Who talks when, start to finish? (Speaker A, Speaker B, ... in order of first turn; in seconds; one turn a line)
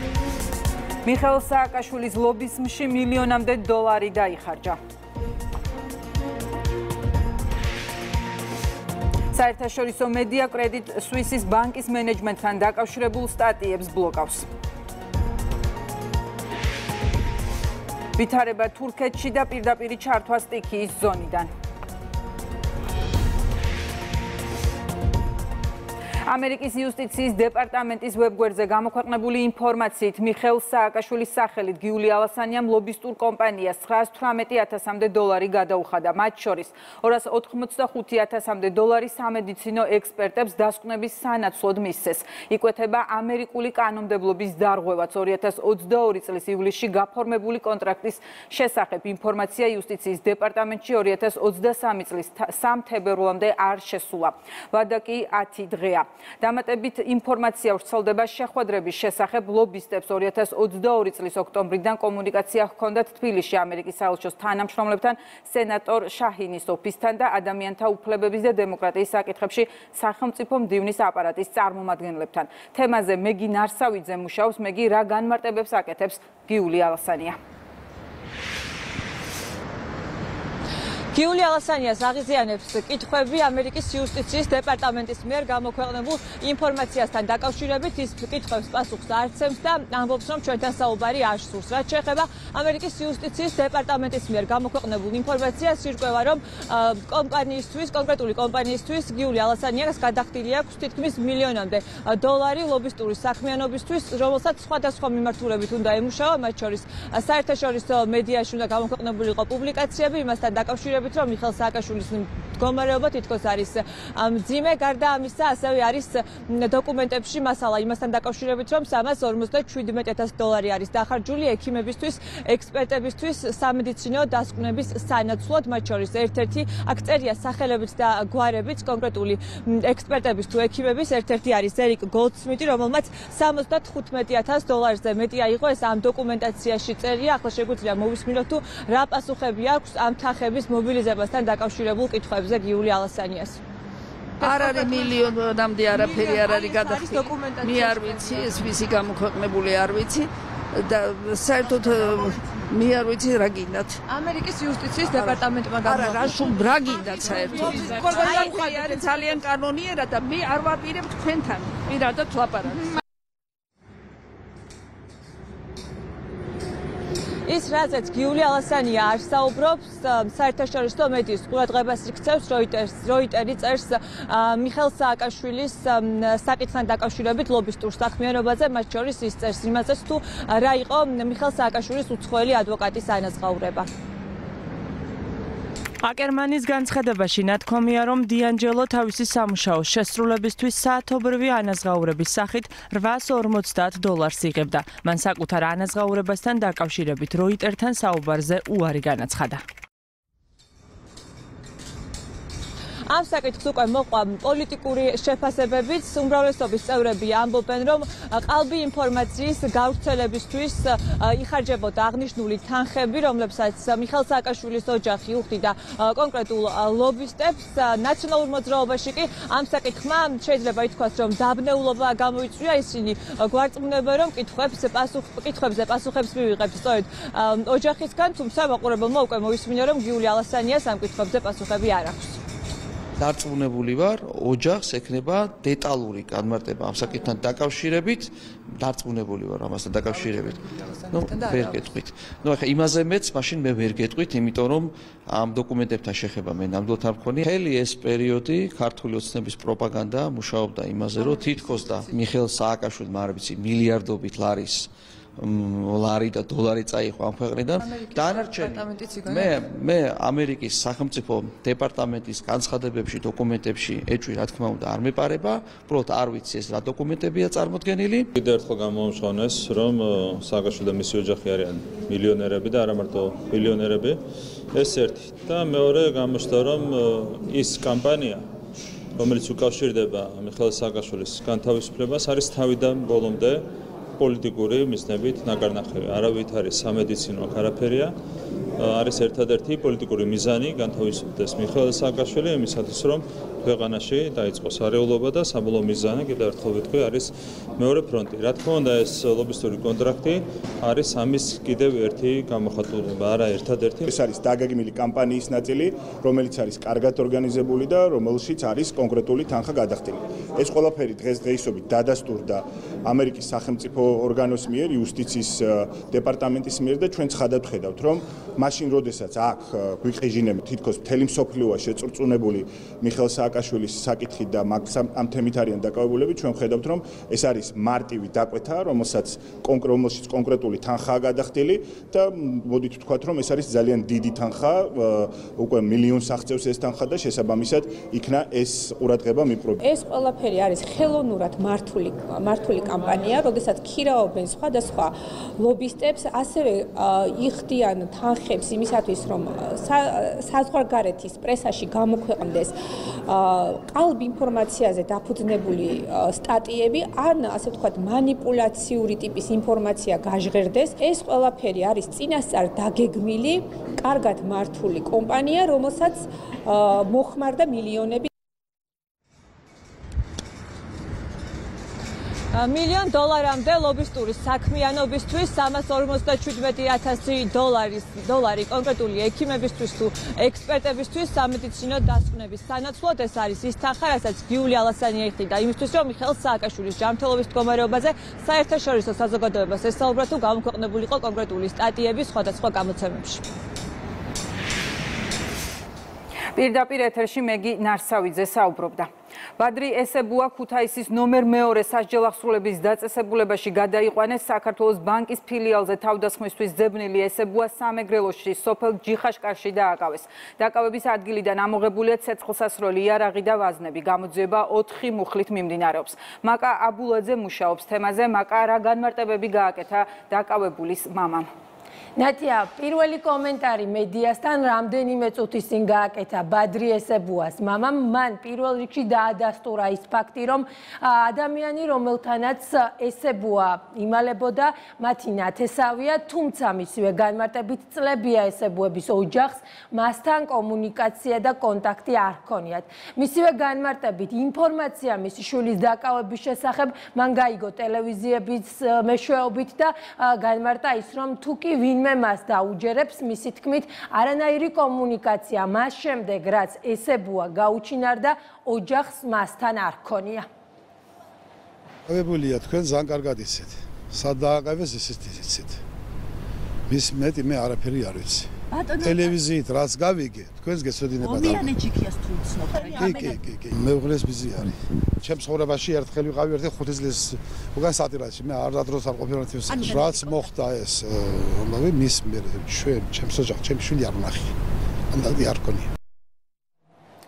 Speaker A: 1.0-4.8
Speaker A: 9.3-14.4
Speaker A: 18.2-21.5
Speaker A: 26.3-77.4
Speaker B: 81.1-143.6
Speaker C: 144.4-145.2
Speaker D: 144.4-154.0
Speaker C: 145.9-148.6
Speaker C: 154.1-159.4
Speaker D: 154.9-162.9
Speaker B: 167.4-183.9
Speaker E: 186.0-199.6
Speaker B: 203.1-232.4
Speaker F: 233.2-268.3
Speaker E: 258.8-259.3
Speaker G: 268.3-274.2
Speaker G: 274.7-278.4
Speaker G: 279.2-283.6
Speaker G: 284.2-288.1
Speaker G: 288.8-304.1
Speaker H: 304.0-339.8
Speaker I: 339.8-352.7
Speaker I: 353.2-368.2
Speaker B: 372.5-393.4
Speaker A: 396.6-421.5
Speaker J: 422.2-460.5
Speaker K: 462.1-465.8
Speaker K: 466.9-471.8
Speaker C: 468.7-469.3
Speaker C: 471.2-473.4
Speaker K: 472.9-484.6
Speaker C: 479.7-480.2
Speaker K: 485.1-485.9